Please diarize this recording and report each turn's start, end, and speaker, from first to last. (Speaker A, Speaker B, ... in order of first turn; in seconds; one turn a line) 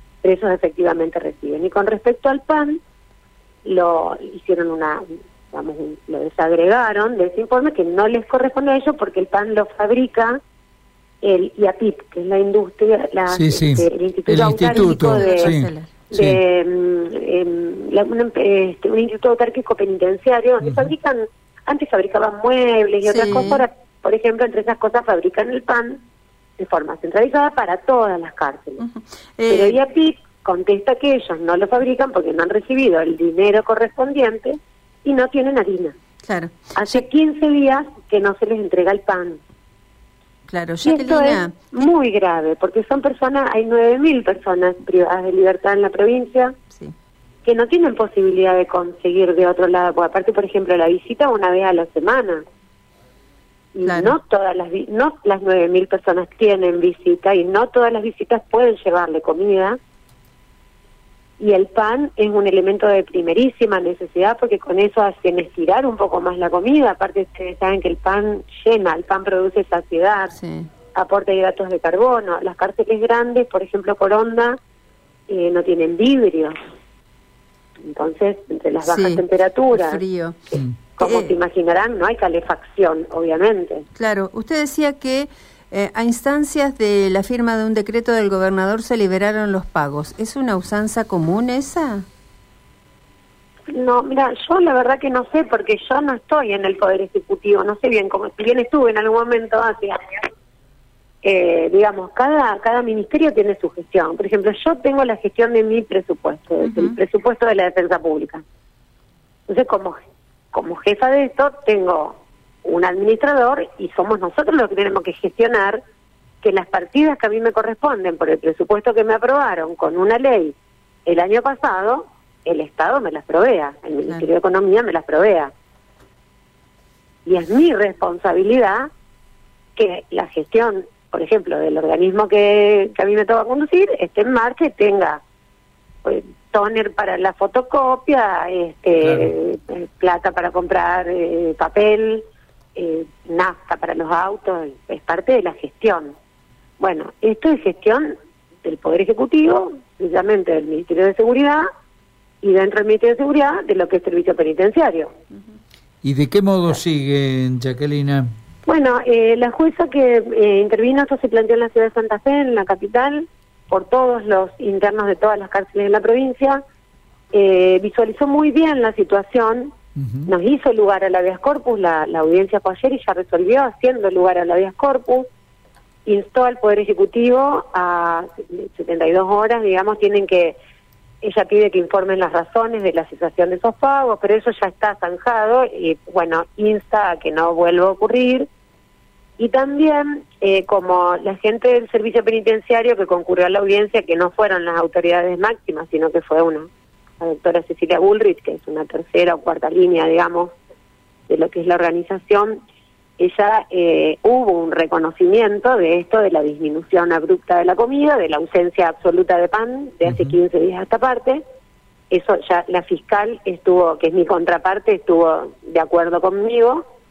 Speaker A: 0.2-2.8
Speaker A: 3.6-10.4
Speaker A: 11.2-15.6
Speaker B: 13.3-16.4
Speaker C: 14.6-16.1
Speaker A: 16.1-26.0
Speaker C: 23.0-23.6
Speaker A: 26.6-28.8
Speaker C: 28.8-29.8
Speaker A: 29.5-36.0
Speaker C: 36.2-37.0
Speaker A: 36.7-39.4
Speaker C: 40.5-41.9
Speaker A: 40.8-46.6
Speaker A: 47.4-52.4
Speaker A: 53.7-59.8
Speaker C: 53.9-54.1
Speaker A: 61.4-70.3
Speaker C: 70.3-70.8
Speaker A: 70.9-74.6
Speaker A: 75.3-76.5
Speaker A: 77.8-80.0
Speaker C: 78.8-81.4
Speaker A: 80.5-83.8
Speaker C: 84.0-92.0
Speaker A: 93.7-100.0
Speaker A: 101.2-108.4
Speaker C: 106.6-107.0
Speaker A: 109.5-110.0
Speaker A: 110.5-115.8
Speaker A: 116.4-125.5
Speaker A: 127.2-128.9
Speaker A: 129.8-135.2
Speaker A: 136.0-146.1
Speaker B: 139.0-139.3
Speaker A: 146.8-151.7
Speaker A: 152.4-155.1
Speaker B: 156.0-158.3
Speaker A: 158.7-166.6
Speaker A: 167.3-169.7
Speaker B: 170.0-170.3
Speaker A: 170.2-175.3
Speaker A: 176.1-180.6
Speaker A: 181.2-188.5
Speaker A: 189.4-196.7
Speaker A: 197.2-200.5
Speaker A: 201.3-202.6
Speaker A: 203.2-211.4
Speaker A: 212.1-216.8